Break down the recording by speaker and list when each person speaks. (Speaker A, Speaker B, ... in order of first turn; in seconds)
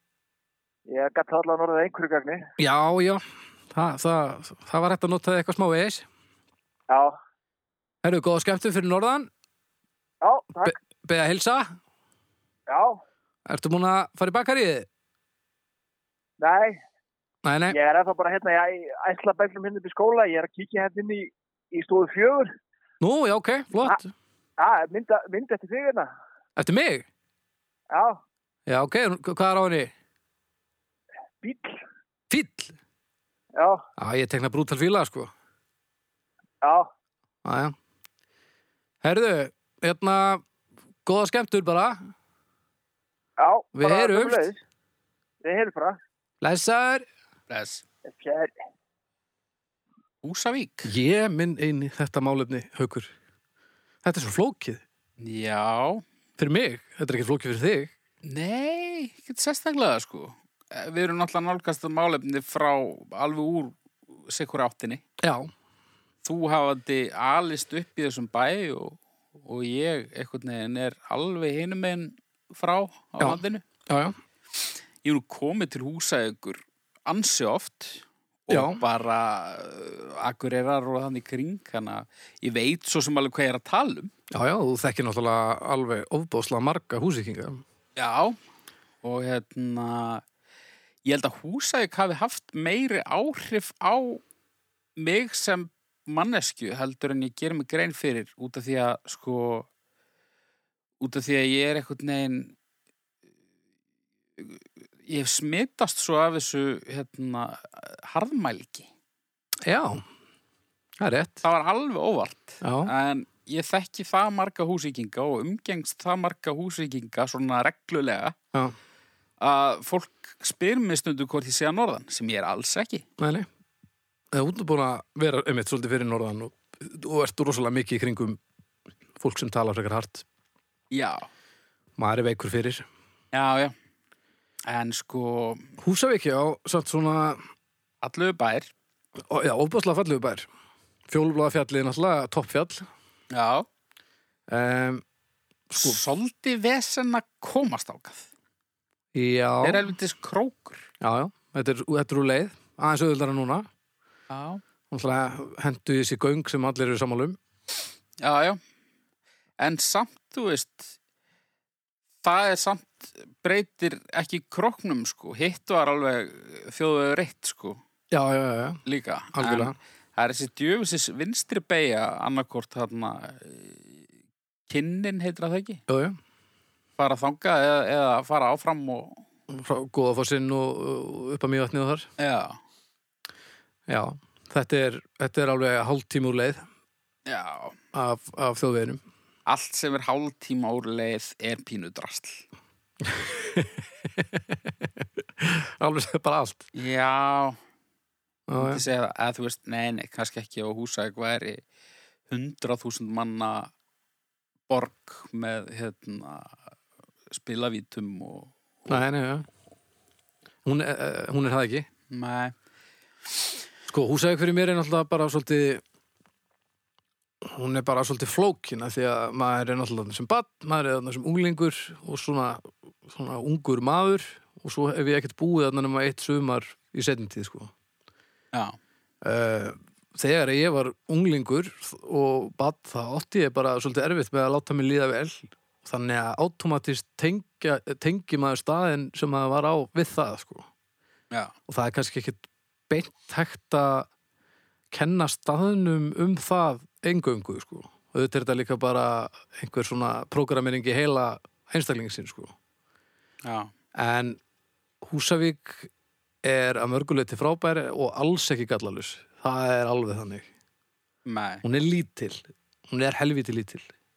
Speaker A: 0.9-2.5, 6.9-7.2, 10.2-10.7, 12.7-13.0, 16.4-16.8, 17.7-22.5, 24.6-26.1, 27.9-28.2, 31.4-31.8, 33.5-33.8, 36.6-36.9, 43.4-44.6, 45.4-46.0, 48.0-48.5
Speaker B: 2.6-6.0, 8.0-9.3, 10.6-11.7, 13.4-14.9, 17.4-17.8, 23.0-24.1, 26.6-27.1, 28.7-29.9, 32.3-32.7, 34.0-35.3, 37.4-37.8, 39.0-40.4, 41.0-42.0, 43.7-44.5, 46.4-47.1, 50.8-53.1, 54.0-54.8, 56.4-57.9, 65.2-65.5, 73.2-74.2, 78.5-78.8, 84.3-87.6, 109.6-110.0, 111.0-111.4, 112.6-112.9, 123.2-123.5, 124.3-128.4, 129.2-130.2, 132.0-132.8, 135.8-137.4, 139.3-140.5, 141.1-142.9, 144.5-145.0, 145.7-146.0, 149.1-149.8, 151.0-153.7, 154.9-157.4, 168.1-168.8, 169.3-169.7, 175.9-176.2, 179.5-182.1, 183.9-186.6, 187.9-189.0, 193.0-196.6, 198.5-198.8, 208.9-209.4, 210.6-211.9, 213.9-215.8, 217.4-227.7, 229.2-240.7, 241.7-244.1, 244.9-252.5, 253.9-254.4, 255.0-255.9, 256.4-260.5, 261.6-263.9
Speaker C: 47.5-47.8, 50.2-50.9, 55.2-56.0, 58.2-65.0, 66.2-73.6, 75.0-84.1, 88.0-88.4, 89.0-90.2, 91.0-94.2, 95.0-99.7, 101.0-102.5, 104.4-108.9, 111.4-118.3, 119.4-123.0, 130.9-131.3, 133.3-133.7, 134.7-135.7, 138.0-138.7, 143.3-143.7, 145.7-148.3, 149.6-150.9, 154.3-154.6, 158.2-158.6, 159.6-160.9, 162.2-167.8, 168.8-174.0, 174.7-175.8, 177.0-179.2, 182.2-182.6, 187.2-187.8, 189.5-192.4, 196.7-197.6, 198.5-201.6, 202.3-203.7, 204.7-206.6, 207.3-208.9, 212.1-212.5, 253.4-253.7, 261.2-261.6